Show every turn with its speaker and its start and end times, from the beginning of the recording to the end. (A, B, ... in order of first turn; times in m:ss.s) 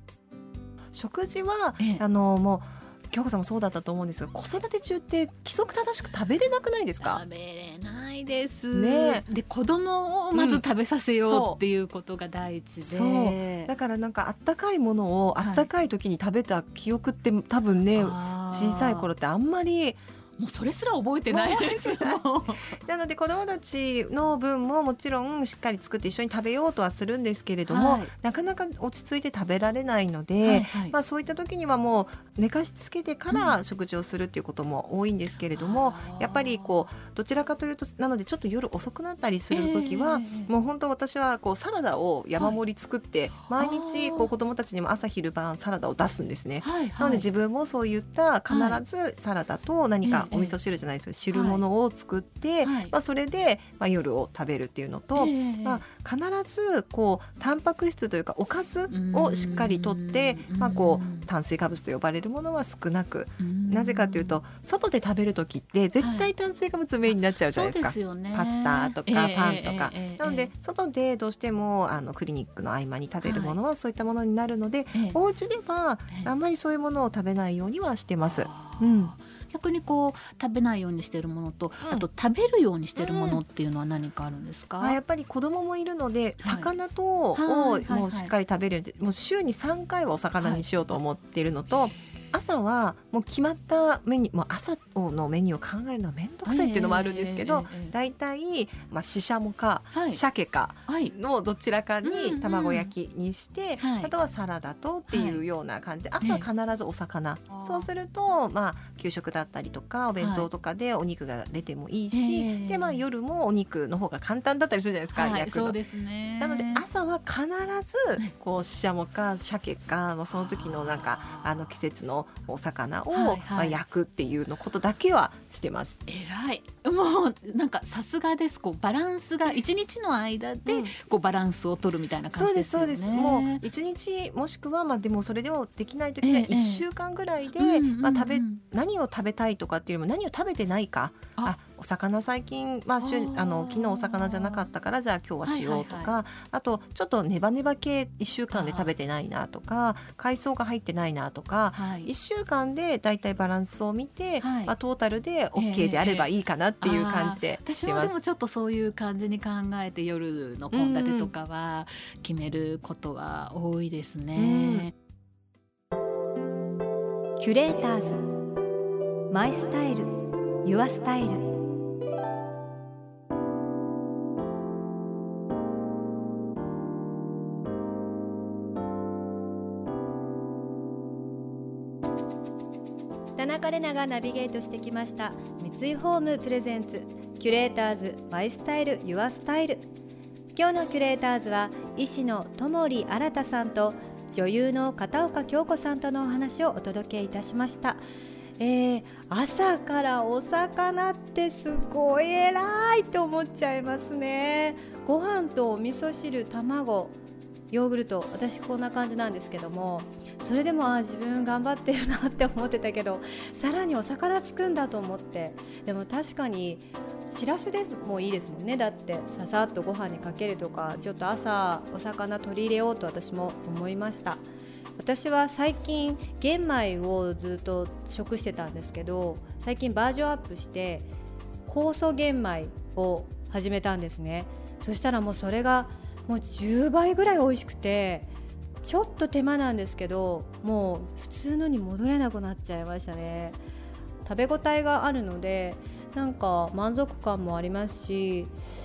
0:00.9-0:07.2 A
0:07.0-0:13.7 B
0:08.7-0:09.2 A
0:10.3-0:10.6 A
0:11.2-0:11.6 A
0:12.8-0:20.0 A
0:15.4-0:15.7 B
0:17.9-0:19.1 B
0:20.4-0:22.8 B
0:21.3-1:19.1 A
0:27.7-0:28.1 B
0:30.4-0:30.9 B
0:33.3-0:33.6 B
0:35.5-0:36.9 B
0:39.5-0:40.5 B
0:43.4-0:44.3 B
0:46.6-0:47.2 B
0:48.5-0:48.8 B
0:50.0-0:50.6 B
0:51.3-0:51.6 B
0:52.6-0:52.9 B
0:55.1-0:55.8 B
0:58.9-1:01.3 B
1:03.4-1:04.4 B
1:06.0-1:06.3 B
1:07.1-1:10.5 B
1:13.2-1:13.6 B
1:18.2-1:25.0 B
1:23.0-1:23.4 A
1:24.8-1:55.8 A
1:26.4-1:26.7 B
1:27.4-1:28.3 B
1:36.4-1:37.9 B
1:39.9-1:40.2 B
1:40.9-1:41.1 B
1:42.0-1:42.9 B
1:43.8-1:44.1 B
1:45.1-1:45.4 B
1:46.2-1:46.5 B
1:47.5-1:47.9 B
1:50.2-1:50.5 B
1:52.1-1:53.0 B
1:55.1-1:56.8 B
1:56.4-2:06.0 A
2:00.4-2:01.5 B
2:03.1-2:03.8 B
2:06.1-2:13.6 B
2:10.6-2:10.9 A
2:12.3-2:38.2 A
2:16.2-2:16.8 B
2:17.6-2:18.6 B
2:23.0-2:24.7 B
2:25.4-2:26.1 B
2:28.5-2:28.9 B
2:31.7-2:32.1 B
2:34.4-2:34.7 B
2:35.6-2:36.3 B
2:36.8-2:44.9 B
2:40.7-2:41.3 A
2:44.4-2:44.9 A
2:47.4-2:48.2 C
2:49.3-2:51.5 C
3:03.4-3:09.9 C
3:10.5-3:18.0 C
3:18.6-3:27.2 C
3:27.7-3:44.4 C
3:45.0-3:51.1 C
3:51.7-3:58.3 C
3:58.8-4:03.6 C
4:04.2-4:08.5 C